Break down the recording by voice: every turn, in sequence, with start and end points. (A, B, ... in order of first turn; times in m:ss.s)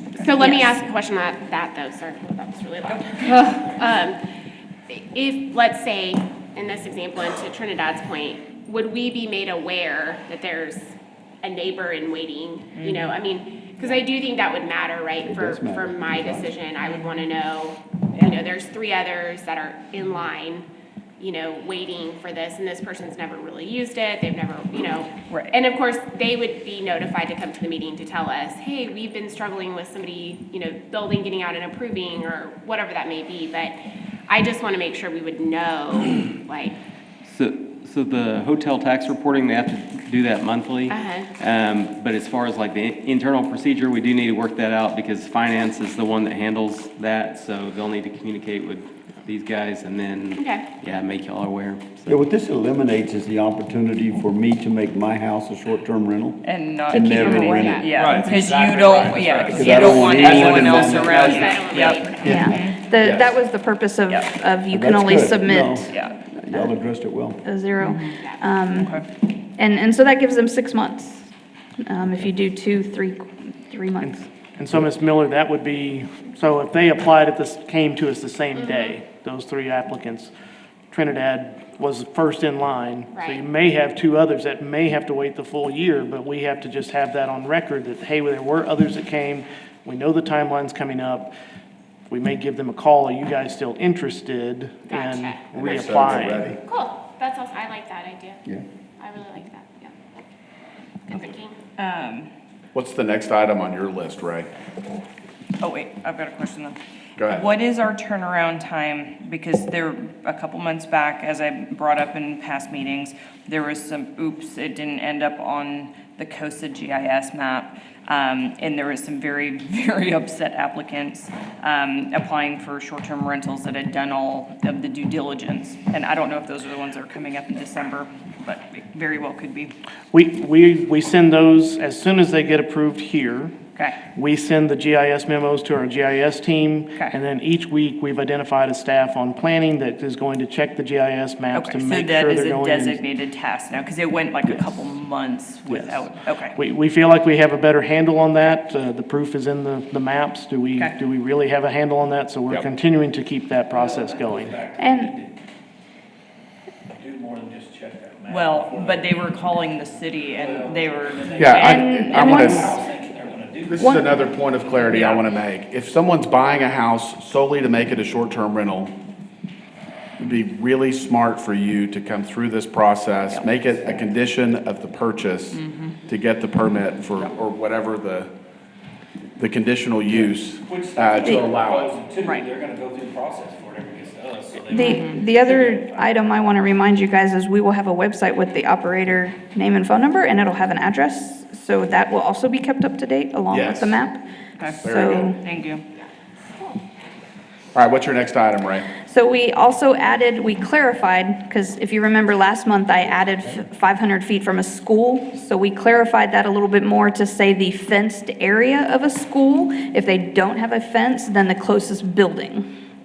0:00.1-0:04.2 A
0:00.4-0:00.7 B
0:04.9-0:20.6 A
0:12.8-0:13.1 C
0:15.2-0:16.5 D
0:21.2-0:33.8 A
0:25.3-0:25.6 C
0:34.3-0:36.8 A
0:37.2-0:52.2 E
0:40.9-0:41.3 A
0:50.4-0:50.7 A
0:52.0-0:58.1 D
0:56.4-1:02.8 C
0:56.9-0:58.4 A
0:58.4-1:00.8 F
0:58.6-0:59.1 G
0:59.2-0:59.5 H
0:59.5-1:01.7 D
1:00.9-1:02.6 A
1:02.2-1:06.7 B
1:03.0-1:03.2 G
1:04.7-1:07.4 D
1:07.4-1:09.0 B
1:07.8-1:08.1 C
1:08.8-1:09.0 C
1:09.6-1:11.3 B
1:11.8-1:14.2 B
1:14.0-1:20.3 H
1:18.5-1:19.0 A
1:20.9-1:31.3 H
1:23.1-1:23.4 A
1:32.1-1:36.4 H
1:34.9-1:36.1 A
1:35.6-1:36.6 G
1:36.6-1:38.4 A
1:39.0-1:39.9 A
1:41.1-1:41.6 A
1:41.8-1:42.3 C
1:42.7-1:44.5 G
1:45.6-2:09.7 C
1:47.2-1:47.5 G
2:10.1-2:13.5 H
2:13.7-2:14.0 C
2:14.2-2:23.0 H
2:21.5-2:26.6 C
2:25.7-2:26.0 H
2:26.5-2:34.5 H
2:33.7-2:35.4 F
2:34.8-2:35.1 B
2:36.9-2:39.3 F
2:38.3-2:42.6 C
2:40.2-2:44.8 F
2:41.4-2:42.7 G
2:41.6-2:42.7 B
2:43.7-2:48.9 G
2:43.8-2:44.1 B
2:44.8-2:45.3 C
2:50.2-2:58.3 G
2:55.5-2:56.0 C
2:59.4-3:01.9 G
3:00.1-3:06.2 F
3:02.2-3:02.5 C
3:04.7-3:15.4 B
3:04.7-3:05.2 C
3:13.5-3:14.0 G
3:14.6-3:15.8 C
3:14.8-3:15.3 G
3:15.9-3:16.9 A
3:17.7-3:18.9 G
3:19.0-3:32.7 B